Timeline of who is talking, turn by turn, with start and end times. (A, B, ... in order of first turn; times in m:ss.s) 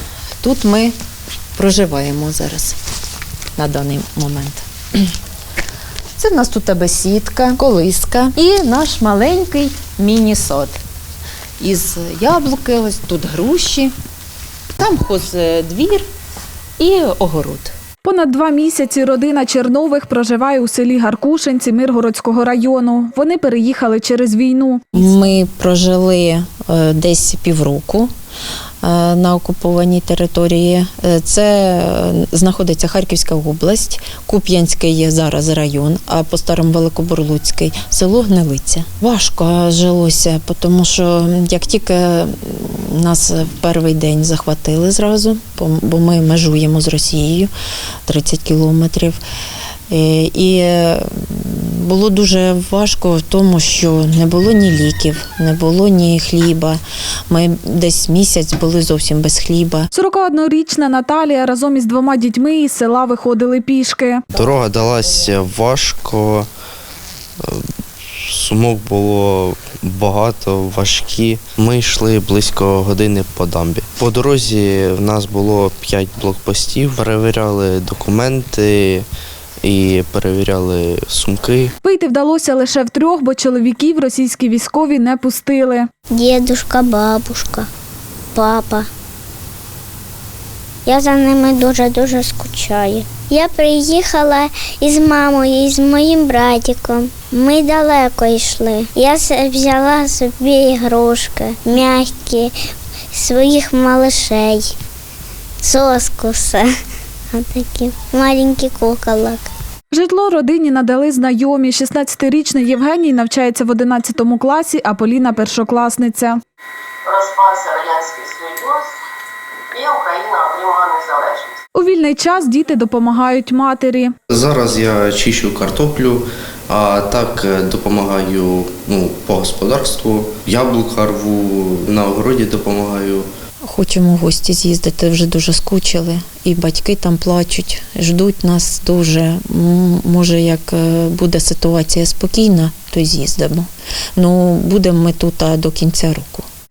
0:00.4-0:00.9 A
0:01.5-0:02.8 A
0:03.6-0:05.0 A
0:06.2-0:10.8 A
0:11.6-0:13.9 A
0:14.8-0:16.0 A
0:16.8-0:17.7 A
0:18.0-0:24.8 B
0:24.9-0:28.1 A
0:28.8-0:47.5 A
0:48.0-0:49.2 A
0:49.9-0:59.9 A
0:59.9-1:04.2 B
1:04.3-1:06.5 C
1:07.4-1:19.0 C
1:19.6-1:21.7 C
1:21.8-1:25.8 B
1:26.1-1:27.7 D
1:28.3-1:28.9 D
1:30.8-1:42.5 D
1:43.1-1:44.7 D
1:45.6-1:46.7 D
1:47.3-1:49.5 D
1:49.9-1:56.4 B
1:57.0-1:59.0 E
1:59.7-2:01.6 E
2:01.7-2:04.1 B
2:04.3-2:13.3 C
2:13.6-2:26.4 A